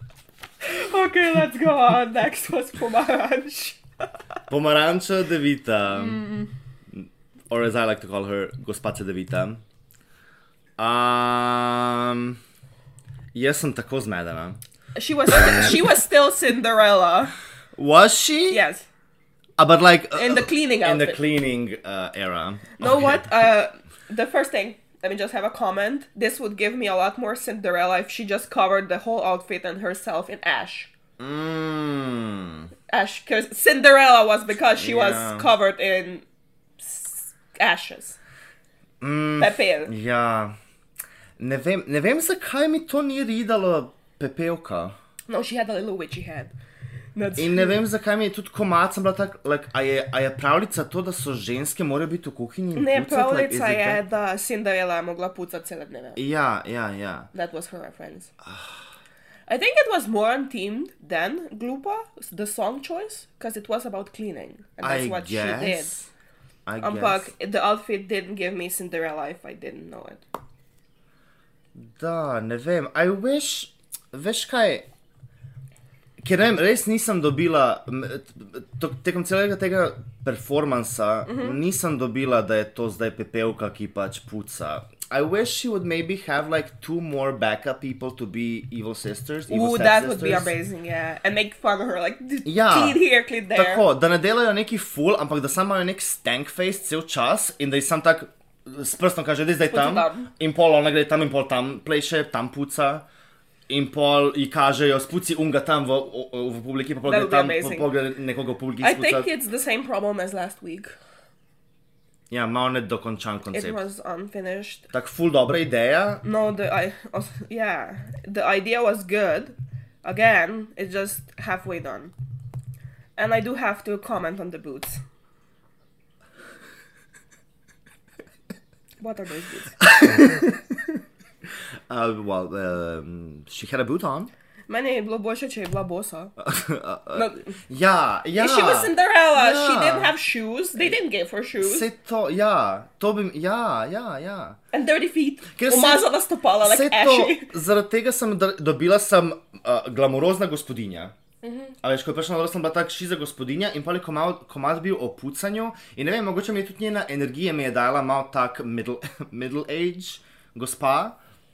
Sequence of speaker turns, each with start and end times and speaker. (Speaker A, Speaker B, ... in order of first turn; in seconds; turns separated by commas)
Speaker A: 0.6-4.1, Speaker B: 4.5-6.2, Speaker A: 5.9-6.5, Speaker B: 6.9-9.6, Speaker B: 10.8-12.4, Speaker B: 13.3-14.6, Speaker A: 14.9-17.3, Speaker B: 15.4-15.7, Speaker B: 17.8-18.6, Speaker A: 18.5-18.8, Speaker B: 19.6-23.3, Speaker A: 20.1-21.2, Speaker A: 22.8-30.9, Speaker B: 31.2-32.7, Speaker A: 32.9-36.2, Speaker B: 34.7-35.5, Speaker A: 36.8-38.2, Speaker B: 39.0-40.5, Speaker A: 39.4-39.9, Speaker B: 41.4-45.0, Speaker A: 45.3-46.5, Speaker A: 47.1-47.8, Speaker B: 47.4-54.0, Speaker A: 52.7-56.2, Speaker B: 56.1-57.3, Speaker A: 57.3-58.3, Speaker B: 58.4-58.8, Speaker A: 59.5-65.9, Speaker B: 64.8-66.1, Speaker B: 66.7-67.3, Speaker A: 66.8-70.2, Speaker B: 71.8-74.8, Speaker B: 76.2-90.5, Speaker A: 81.3-81.6, Speaker A: 89.5-93.8, Speaker B: 92.4-93.0, Speaker B: 93.5-103.0, Speaker A: 99.7-100.3, Speaker B: 103.7-109.3, Speaker A: 107.0-107.9, Speaker A: 108.8-110.9, Speaker B: 112.3-113.8, Speaker A: 113.5-114.8, Speaker B: 114.9-116.2, Speaker A: 116.2-122.1, Speaker A: 123.2-125.0, Speaker A: 129.0-129.9, Speaker B: 129.9-130.5, Speaker B: 131.9-134.3, Speaker A: 134.7-136.3, Speaker B: 136.4-140.1, Speaker A: 137.1-137.5, Speaker A: 138.3-141.9, Speaker B: 141.6-144.6, Speaker A: 144.7-147.5, Speaker B: 145.6-151.1, Speaker A: 151.4-151.7, Speaker B: 151.8-161.2